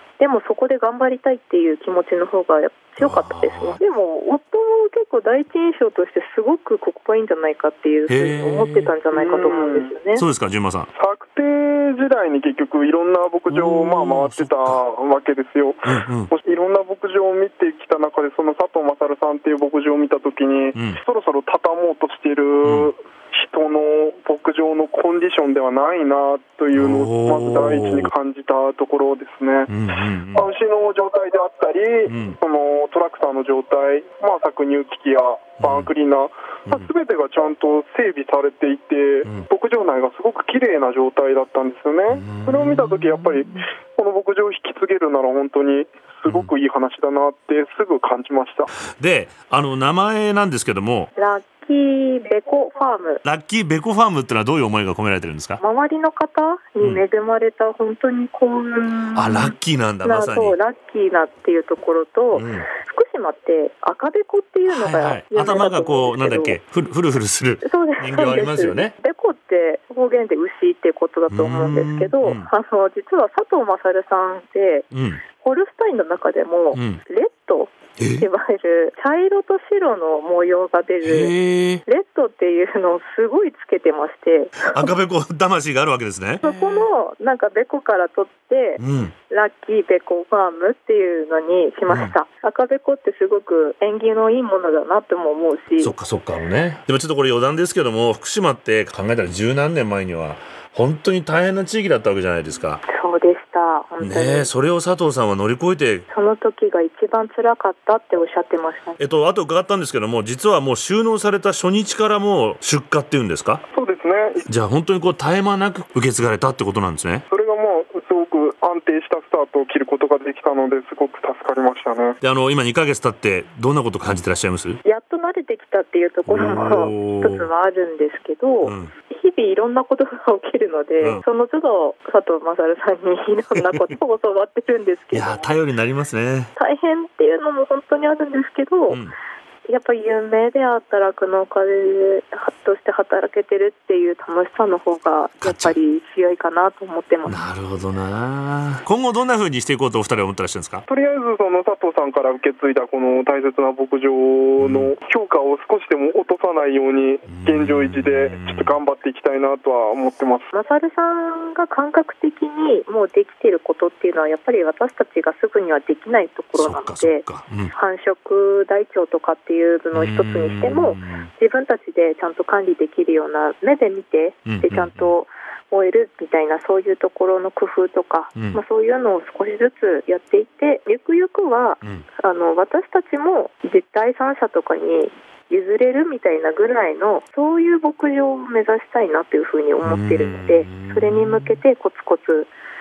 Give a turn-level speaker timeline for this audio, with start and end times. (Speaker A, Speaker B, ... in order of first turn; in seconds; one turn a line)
Speaker A: 0.2-10.2
Speaker B: 3.0-3.8
Speaker B: 8.1-8.9
Speaker C: 9.1-9.9
Speaker B: 10.2-10.9
Speaker C: 10.9-29.8
Speaker B: 13.5-14.8
Speaker B: 15.8-16.3
Speaker B: 22.6-22.9
Speaker B: 26.8-28.1
Speaker B: 29.7-30.5
Speaker C: 30.3-48.7
Speaker B: 32.1-32.4
Speaker B: 35.6-35.9
Speaker B: 42.1-43.4
Speaker B: 48.8-51.1
Speaker A: 51.2-53.2
Speaker B: 53.2-55.6
Speaker A: 55.6-66.6
Speaker B: 59.1-60.6
Speaker B: 62.3-62.7
Speaker B: 64.7-68.9
Speaker A: 67.6-74.9
Speaker B: 71.3-72.5
Speaker B: 74.9-75.2
Speaker A: 75.4-81.3
Speaker B: 76.7-77.0
Speaker B: 78.0-78.3
Speaker B: 81.0-81.8
Speaker A: 81.8-84.9
Speaker B: 84.6-86.8
Speaker A: 86.4-95.9
Speaker B: 88.8-89.1
Speaker B: 91.9-92.1
Speaker B: 95.8-102.8
Speaker A: 102.9-104.5
Speaker B: 104.0-106.1
Speaker A: 106.1-109.0
Speaker B: 109.0-113.6
Speaker C: 113.7-114.5
Speaker B: 114.5-117.2
Speaker C: 117.3-122.2
Speaker B: 122.2-124.8
Speaker A: 124.8-135.6
Speaker B: 126.3-127.5
Speaker B: 128.6-128.9
Speaker B: 135.1-136.5
Speaker A: 136.6-139.0
Speaker B: 138.9-139.2
Speaker A: 139.7-147.4
Speaker B: 145.4-145.8
Speaker B: 147.2-150.8
Speaker C: 150.9-160.5
Speaker B: 154.6-154.9
Speaker B: 157.3-158.8
Speaker A: 160.5-192.5
Speaker B: 166.5-167.7
Speaker B: 169.9-171.3
Speaker B: 174.5-175.1
Speaker B: 189.8-191.6